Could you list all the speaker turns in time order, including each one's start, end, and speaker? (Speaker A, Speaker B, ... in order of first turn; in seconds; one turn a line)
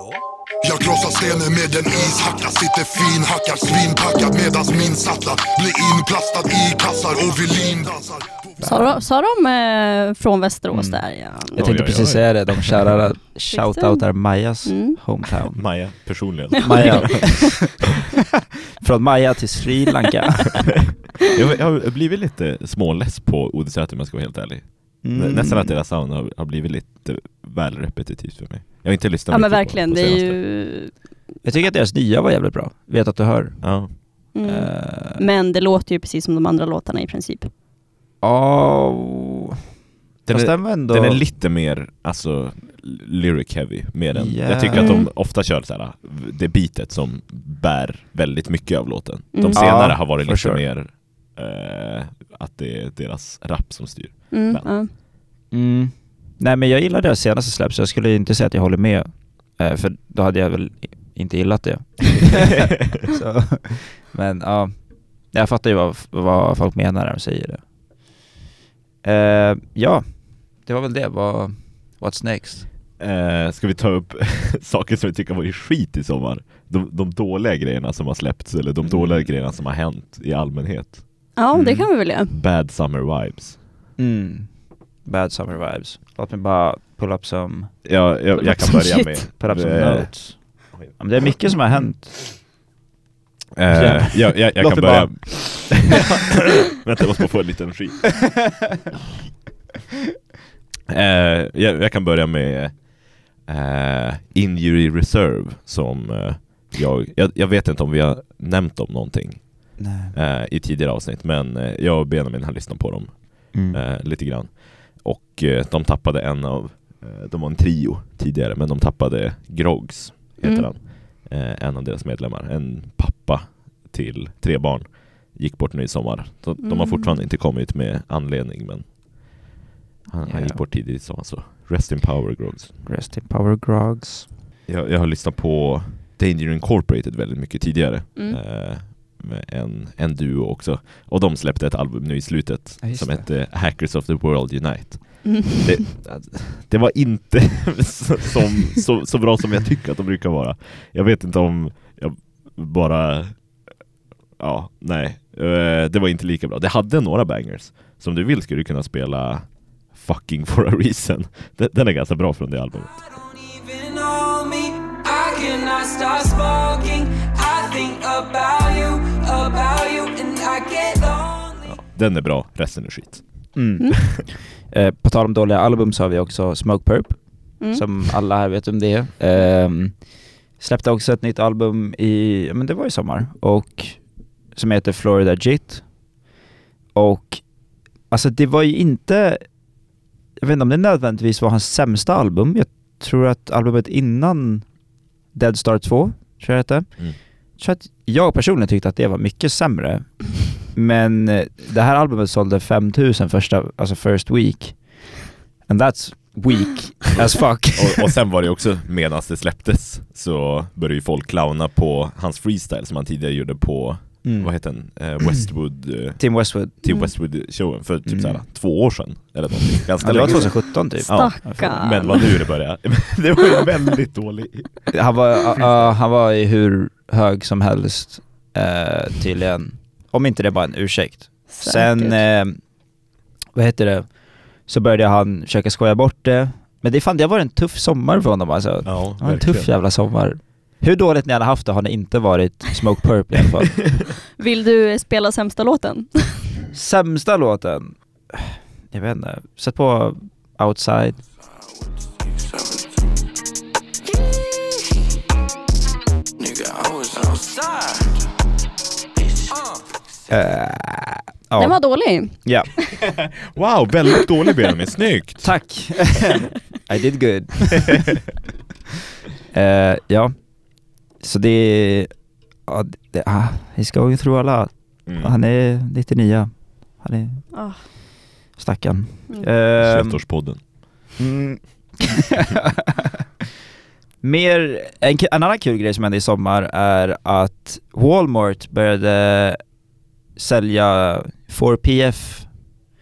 Speaker A: 0.6-8.6
Speaker B: 8.6-9.0
Speaker C: 8.6-12.0
Speaker B: 10.7-15.9
Speaker D: 11.5-13.0
Speaker C: 13.5-15.0
Speaker D: 15.6-17.7
Speaker B: 16.6-17.9
Speaker C: 16.7-17.3
Speaker B: 18.8-20.6
Speaker D: 21.3-30.5
Speaker B: 25.0-25.8
Speaker C: 29.3-31.1
Speaker B: 31.4-35.2
Speaker D: 33.6-33.9
Speaker C: 34.3-37.5
Speaker B: 38.2-39.5
Speaker D: 40.2-54.8
Speaker B: 40.3-41.2
Speaker B: 44.1-45.0
Speaker C: 44.7-45.1
Speaker C: 49.3-50.0
Speaker B: 49.5-50.6
Speaker C: 54.3-54.9
Speaker B: 55.5-67.6
Speaker B: 69.0-72.7
Speaker D: 73.0-83.6
Speaker B: 78.8-79.3
Speaker C: 81.3-82.3
Speaker B: 81.5-81.8
Speaker B: 84.0-87.8
Speaker D: 87.8-91.8
Speaker C: 88.4-89.2
Speaker B: 89.3-92.4
Speaker D: 93.5-98.5
Speaker B: 93.7-95.9
Speaker D: 100.9-129.4
Speaker B: 109.8-110.1
Speaker B: 113.5-113.8
Speaker C: 120.4-120.7
Speaker C: 126.6-127.2
Speaker D: 130.1-132.8
Speaker B: 130.2-130.6
Speaker B: 132.8-134.3
Speaker D: 134.7-153.8
Speaker B: 142.8-143.3
Speaker C: 145.2-145.7
Speaker D: 154.4-163.1
Speaker E: 163.1-171.8
Speaker D: 171.7-173.6
Speaker B: 173.5-186.2
Speaker B: 186.9-189.8
Speaker B: 190.4-208.1
Speaker D: 207.2-224.9
Speaker B: 214.2-217.2
Speaker C: 216.9-217.1
Speaker B: 218.1-218.4
Speaker B: 220.0-222.2
Speaker C: 220.3-222.4
Speaker B: 224.9-232.9
Speaker C: 231.5-232.2
Speaker B: 233.5-244.0
Speaker D: 238.8-239.7
Speaker C: 244.4-246.4
Speaker B: 246.7-251.2
Speaker E: 252.4-252.9
Speaker E: 256.4-258.1
Speaker E: 259.2-259.8
Speaker B: 260.3-262.7
Speaker C: 261.6-262.6
Speaker D: 263.5-265.9
Speaker B: 265.4-268.1
Speaker B: 269.5-278.0
Speaker D: 275.0-275.3
Speaker C: 277.5-277.8
Speaker B: 278.6-280.6
Speaker D: 279.8-280.7
Speaker B: 281.2-282.1
Speaker B: 284.2-289.8
Speaker B: 290.3-292.6